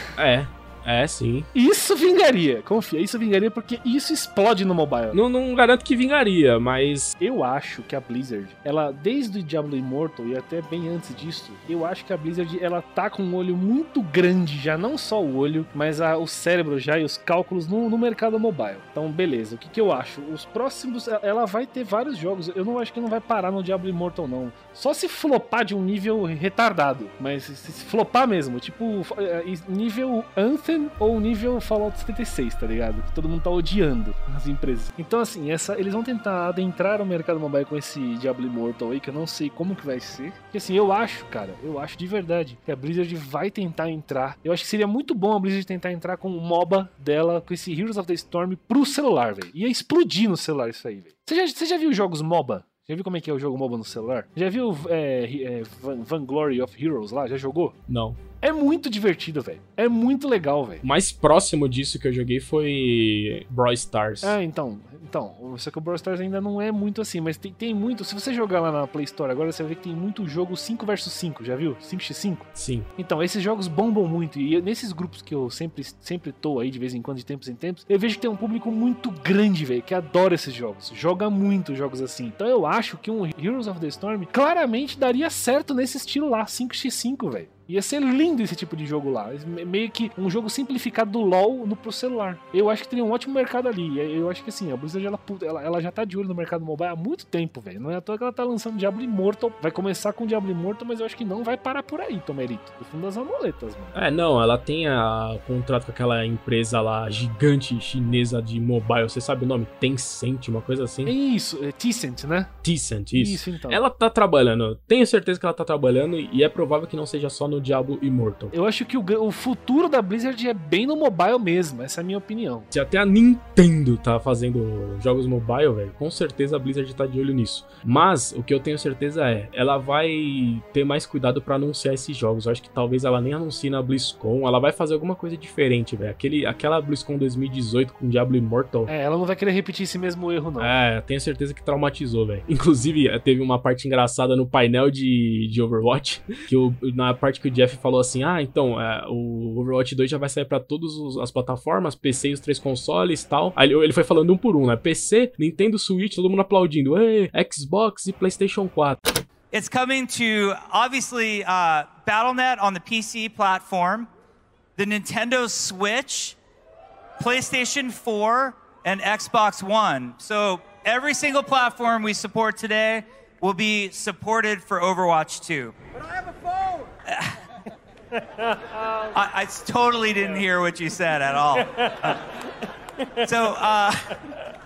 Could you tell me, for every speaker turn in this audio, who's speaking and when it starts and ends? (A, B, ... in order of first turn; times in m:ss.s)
0:00.2-0:01.5 A
0:01.5-0:05.2 B
0:05.1-0:07.2 A
0:07.2-0:57.8 B
0:57.9-0:58.2 A
0:58.4-1:00.8 B
1:00.8-1:04.4 A
1:04.2-1:44.0 B
1:12.6-1:12.9 A
1:43.9-1:51.1 A
1:51.0-1:52.5 B
1:52.6-1:58.5 A
1:53.1-1:53.8 B
1:58.5-2:02.7 B
2:02.7-2:18.9 A
2:18.9-2:20.7 B
2:20.6-2:39.0 A
2:39.5-2:44.1 C
2:44.8-2:46.4 C
2:47.2-2:55.8 C
2:59.1-3:02.2 C
3:03.2-3:04.1 C